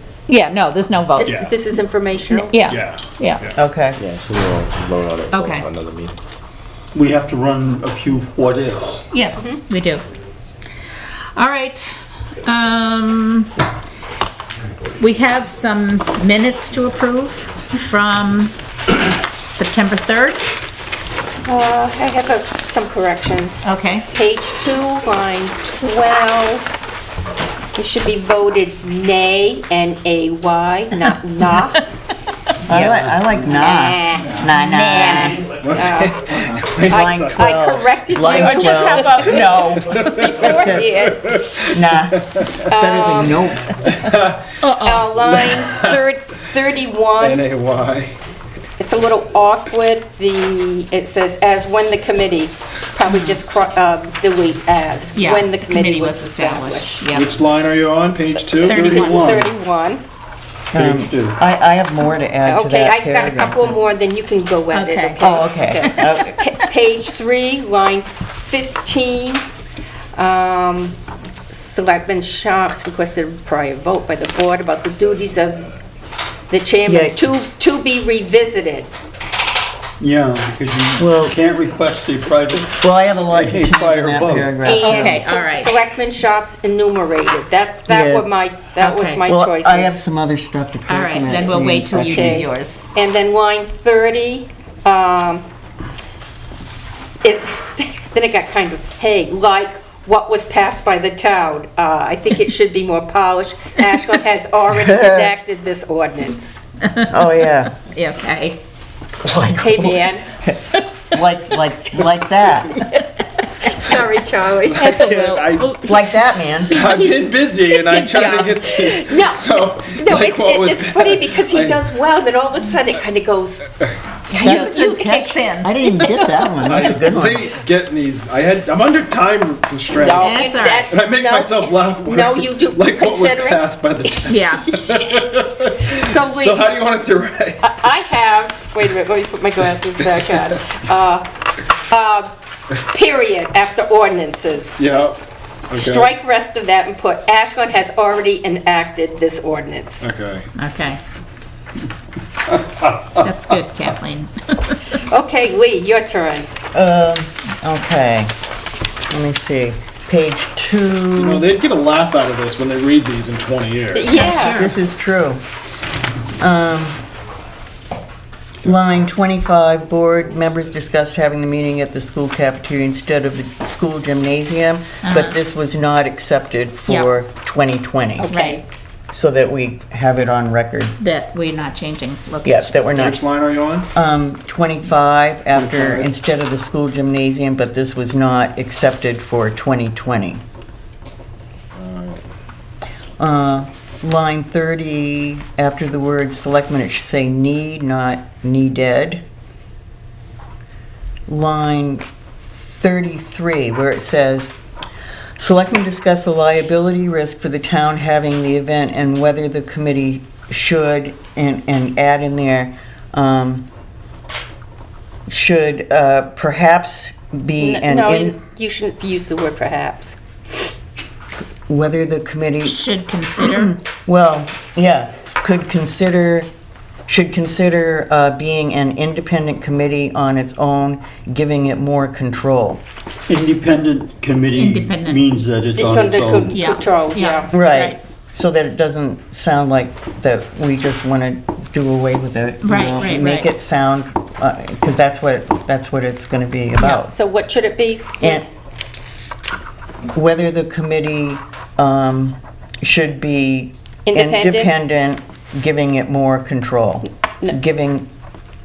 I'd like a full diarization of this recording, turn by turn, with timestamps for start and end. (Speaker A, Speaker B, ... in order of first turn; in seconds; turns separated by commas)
Speaker A: 0.3-1.4, Speaker B: 1.2-2.5, Speaker A: 2.4-3.4, Speaker C: 2.7-3.5, Speaker D: 3.5-4.0, Speaker E: 4.0-6.1, Speaker A: 5.3-5.7, Speaker F: 6.9-9.0, Speaker A: 9.1-10.0, Speaker B: 9.4-9.6, Speaker A: 11.3-13.5, Speaker A: 15.0-18.5, Speaker A: 19.5-20.4, Speaker B: 21.4-26.6, Speaker A: 23.6-24.1, Speaker B: 27.8-31.8, Speaker D: 32.7-35.4, Speaker A: 32.7-33.1, Speaker B: 33.3-41.2, Speaker A: 34.5-35.4, Speaker C: 35.5-37.3, Speaker D: 36.9-39.2, Speaker A: 38.2-40.4, Speaker C: 39.9-41.8, Speaker D: 40.4-41.1, Speaker D: 41.7-43.8, Speaker B: 42.7-43.5, Speaker C: 43.9-44.6, Speaker A: 44.6-45.1, Speaker B: 44.8-47.4, Speaker C: 45.2-46.0, Speaker C: 47.2-48.1, Speaker B: 48.8-57.0, Speaker A: 53.1-53.4, Speaker A: 55.1-57.3, Speaker C: 57.1-59.5, Speaker A: 58.6-59.4, Speaker B: 58.6-60.0, Speaker D: 60.7-63.8, Speaker F: 60.8-61.4, Speaker B: 62.5-69.5, Speaker A: 64.7-65.2, Speaker D: 65.2-66.4, Speaker A: 65.8-66.8, Speaker B: 70.2-70.9, Speaker B: 71.5-75.7, Speaker B: 76.5-78.9, Speaker D: 76.8-77.2, Speaker F: 80.0-82.8, Speaker D: 81.0-81.4, Speaker D: 82.7-85.2, Speaker F: 83.3-84.5, Speaker B: 84.6-90.0, Speaker A: 84.8-85.8, Speaker D: 87.9-88.2, Speaker A: 88.8-89.2, Speaker D: 89.3-92.5, Speaker A: 90.9-92.8, Speaker B: 91.4-95.4, Speaker B: 97.2-106.6, Speaker D: 104.7-105.3, Speaker A: 106.9-107.2, Speaker D: 107.1-107.8, Speaker A: 107.8-108.6, Speaker D: 109.2-112.8, Speaker B: 109.6-110.2, Speaker B: 112.8-113.0, Speaker B: 113.6-115.1, Speaker C: 114.7-115.8, Speaker A: 114.8-117.1, Speaker D: 115.9-116.8, Speaker C: 116.7-121.8, Speaker B: 116.7-123.7, Speaker A: 117.8-118.8, Speaker D: 124.3-127.5, Speaker B: 124.3-124.7, Speaker A: 124.4-126.4, Speaker C: 126.7-137.6, Speaker B: 129.9-133.6, Speaker A: 130.2-130.9, Speaker A: 134.2-134.7, Speaker B: 134.8-135.2, Speaker B: 135.8-136.8, Speaker B: 137.6-144.8, Speaker C: 144.8-145.2, Speaker C: 145.7-146.1, Speaker B: 145.8-150.1, Speaker C: 150.0-150.5, Speaker A: 150.6-151.0, Speaker A: 153.1-155.0, Speaker B: 155.1-156.5, Speaker D: 156.7-158.3, Speaker D: 159.1-161.4, Speaker C: 161.2-164.1, Speaker B: 163.9-164.7, Speaker A: 164.1-164.8, Speaker D: 164.4-165.4, Speaker D: 166.4-167.0, Speaker D: 168.6-178.3, Speaker A: 175.0-175.4, Speaker A: 176.9-177.1, Speaker B: 178.2-178.6, Speaker A: 178.3-178.6, Speaker D: 179.1-180.9, Speaker A: 181.0-183.2, Speaker D: 182.4-183.3, Speaker C: 183.0-183.9, Speaker D: 183.9-190.4, Speaker C: 185.6-186.1, Speaker C: 191.8-192.2, Speaker D: 193.2-199.2, Speaker D: 201.3-202.1, Speaker D: 202.6-204.5, Speaker D: 205.4-213.7, Speaker D: 215.3-218.4, Speaker B: 217.6-220.2, Speaker D: 221.7-226.5, Speaker A: 222.6-223.8, Speaker D: 227.1-232.8, Speaker F: 233.3-236.6, Speaker A: 234.5-235.3, Speaker B: 235.8-237.5, Speaker A: 236.5-238.0, Speaker D: 237.5-247.1, Speaker A: 242.6-243.5, Speaker A: 246.8-247.0, Speaker B: 247.1-248.4, Speaker D: 250.1-258.1, Speaker B: 254.1-254.7